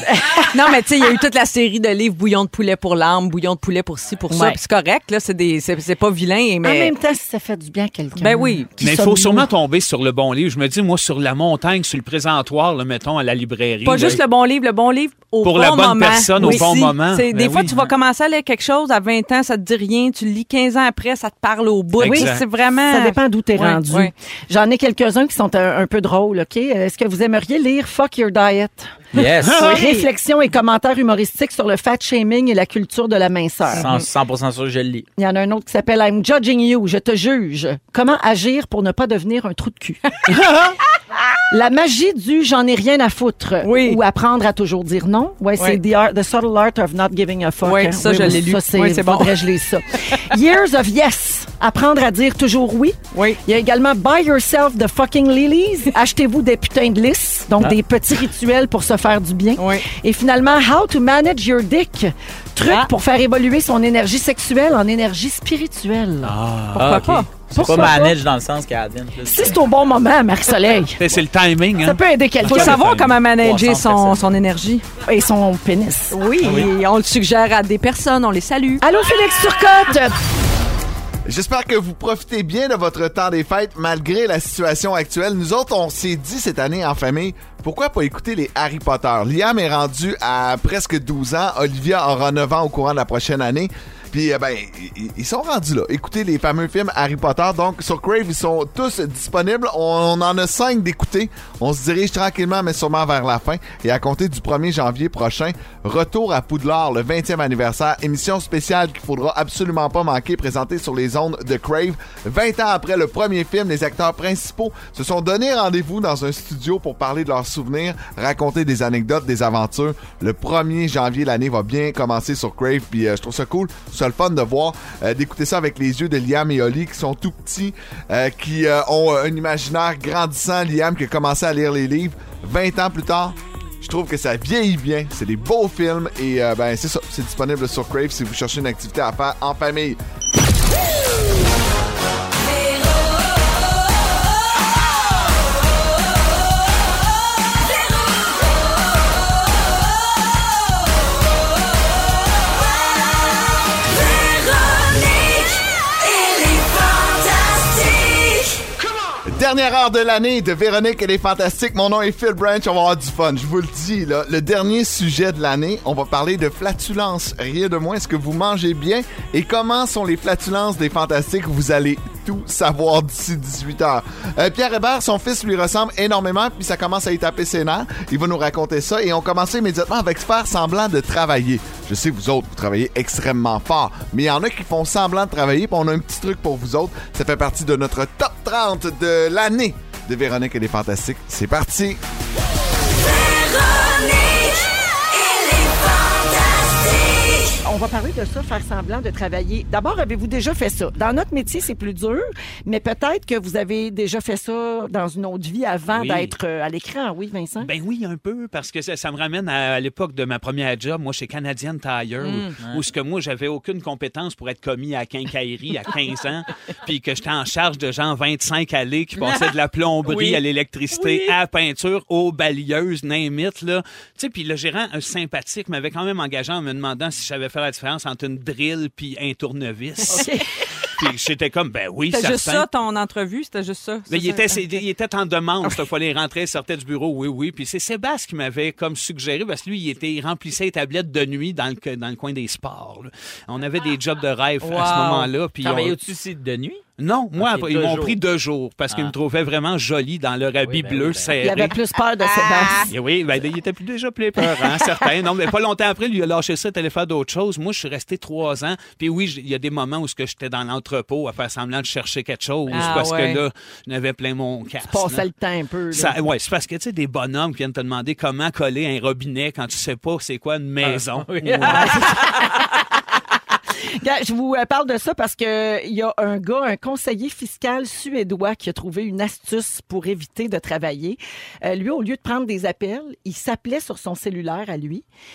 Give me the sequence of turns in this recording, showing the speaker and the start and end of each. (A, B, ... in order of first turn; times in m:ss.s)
0:00.4-0:06.9 A
0:04.3-0:04.6 B
0:06.6-0:09.5 B
0:08.2-0:08.7 A
0:08.8-0:14.2 C
0:13.8-0:24.1 A
0:15.4-0:17.8 C
0:16.4-0:16.7 B
0:22.0-0:22.5 C
0:22.0-0:29.0 B
0:29.1-0:29.6 D
0:29.2-0:29.9 C
0:29.5-0:33.9 B
0:29.6-0:30.0 A
0:33.7-0:34.1 A
0:33.8-0:35.1 D
0:35.2-0:40.0 B
0:41.5-1:06.4 B
0:43.6-0:44.0 A
0:47.6-0:49.4 A
0:53.1-0:53.4 A
0:59.6-0:59.8 A
1:06.2-1:07.2 C
1:06.7-1:08.0 A
1:06.8-1:09.6 D
1:07.5-1:08.1 B
1:09.2-1:11.0 B
1:11.0-1:13.2 C
1:11.8-1:12.8 B
1:12.4-1:14.8 A
1:13.3-1:14.4 D
1:15.0-1:16.2 B
1:16.1-1:18.8 A
1:18.8-1:20.2 B
1:21.2-2:20.0 E
2:39.2-3:12.0 E
3:17.6-3:27.7 B
3:25.9-3:26.3 C
3:27.6-3:50.3 C
3:32.2-3:32.5 A
3:40.0-3:40.4 A
3:40.9-3:41.3 A
3:50.1-3:50.4 B
3:51.0-3:52.7 C
3:52.1-3:54.8 A
3:54.1-4:06.0 C
4:04.6-4:05.3 A
4:05.6-4:06.8 D
4:07.0-4:11.8 C
4:07.4-4:08.2 D
4:10.6-4:11.4 D
4:11.4-4:12.9 B
4:12.9-4:25.2 C
4:22.7-4:23.4 A
4:24.8-4:26.1 B
4:25.9-4:32.0 C
4:30.8-4:32.2 D
4:31.6-4:32.7 B
4:34.0-4:45.0 B